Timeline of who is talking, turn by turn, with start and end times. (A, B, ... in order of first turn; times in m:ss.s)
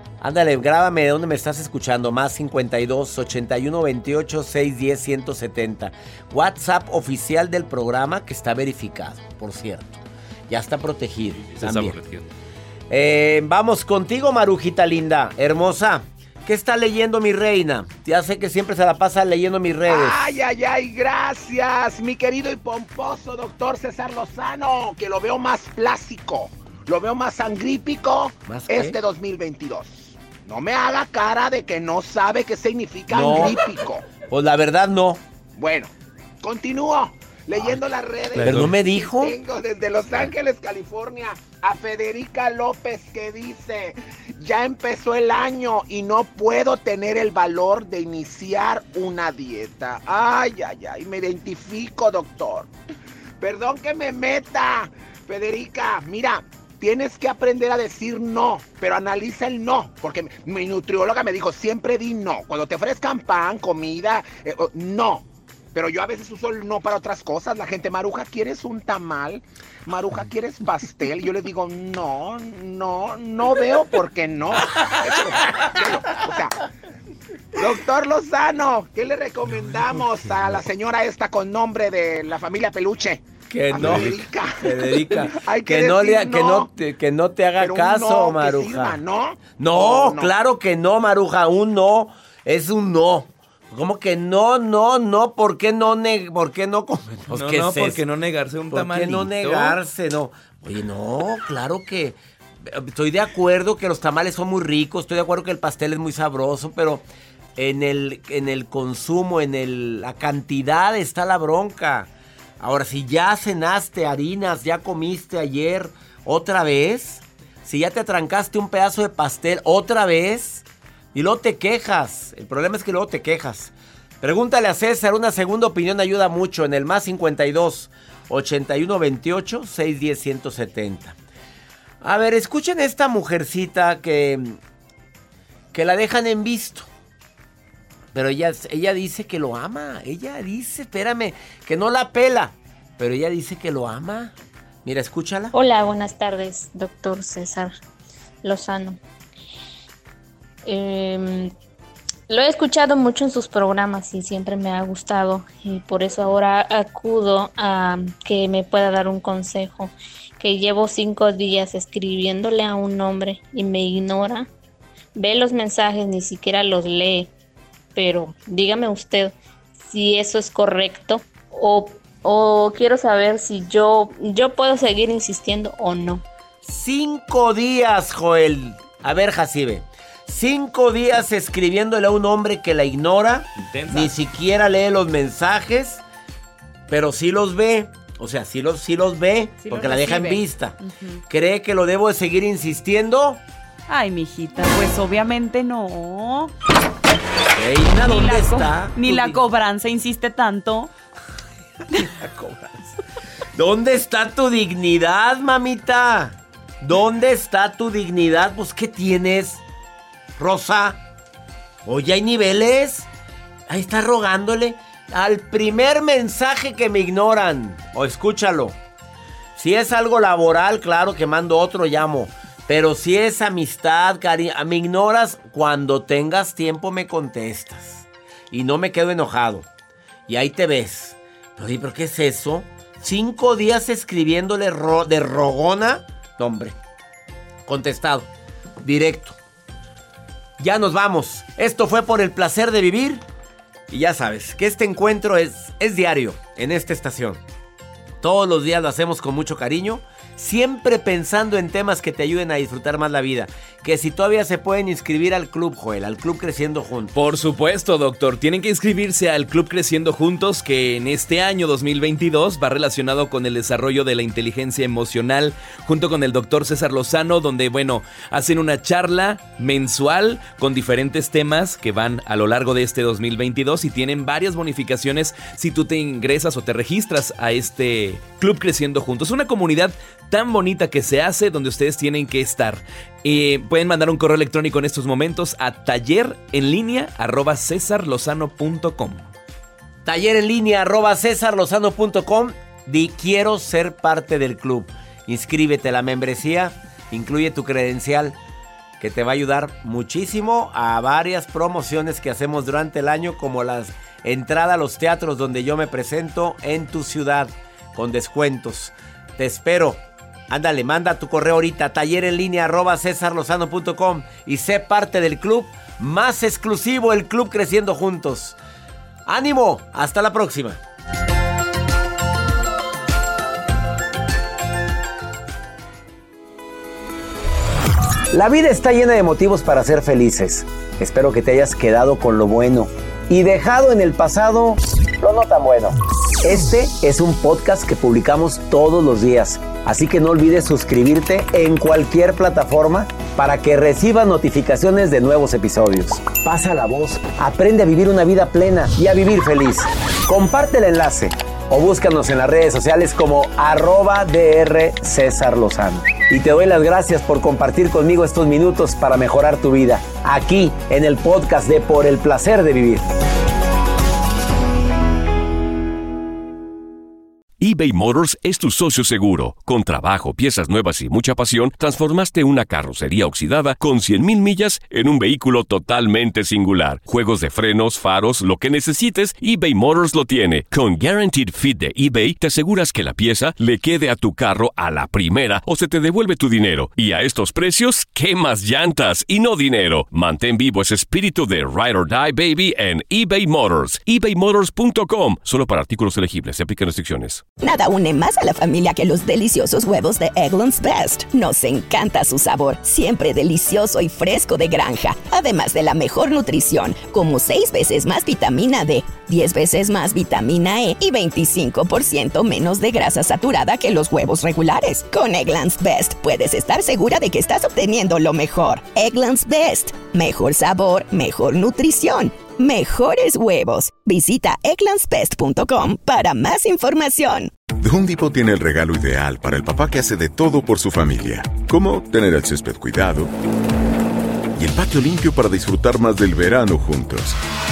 0:00.2-0:12.0 A
0:11.6-0:12.2 B
0:12.9-0:20.4 A
0:19.9-0:34.0 C
0:28.5-0:29.0 A
0:33.1-0:33.6 A
0:34.3-0:35.2 A
0:35.6-0:35.9 C
0:36.4-0:52.7 C
0:38.4-0:38.7 B
0:38.4-0:39.4 A
0:53.4-1:16.5 C
1:17.6-1:26.7 C
1:23.5-1:29.0 A
1:23.8-1:24.1 B
1:27.6-1:30.3 C
1:29.6-1:38.0 A
1:37.3-1:39.8 B
1:38.7-1:47.0 A
1:47.6-2:11.2 A
2:12.0-2:14.6 A
2:15.7-2:16.9 A
2:18.1-2:25.5 A
2:25.5-2:27.7 D
2:28.4-2:29.0 D
2:30.7-2:31.5 D
2:32.3-2:44.5 D
2:45.2-2:47.3 D
2:48.0-2:56.2 D
2:56.6-3:06.0 A
3:03.6-3:04.1 B
3:06.9-3:10.8 A
3:09.6-3:11.2 E
3:11.3-3:13.4 A
3:13.9-3:16.5 E
3:17.5-3:19.4 A
3:17.9-3:20.9 E
3:21.9-3:23.0 A
3:23.6-3:29.6 A
3:30.4-3:31.0 A
3:31.8-3:33.1 A
3:33.7-3:38.8 A
3:39.6-3:49.7 A
3:50.3-3:56.8 A
3:57.7-3:58.3 A
3:58.8-3:59.4 A
4:00.6-4:03.2 A
4:03.9-4:07.4 A
4:08.2-4:17.2 A
4:17.2-4:49.3 B
4:50.0-4:58.4 A
4:59.0-5:18.6 A
5:19.3-5:20.8 A
5:28.3-6:03.0 A
6:07.6-6:37.4 F
6:37.6-7:07.5 G
7:07.8-7:13.3 H
7:14.6-7:17.4 H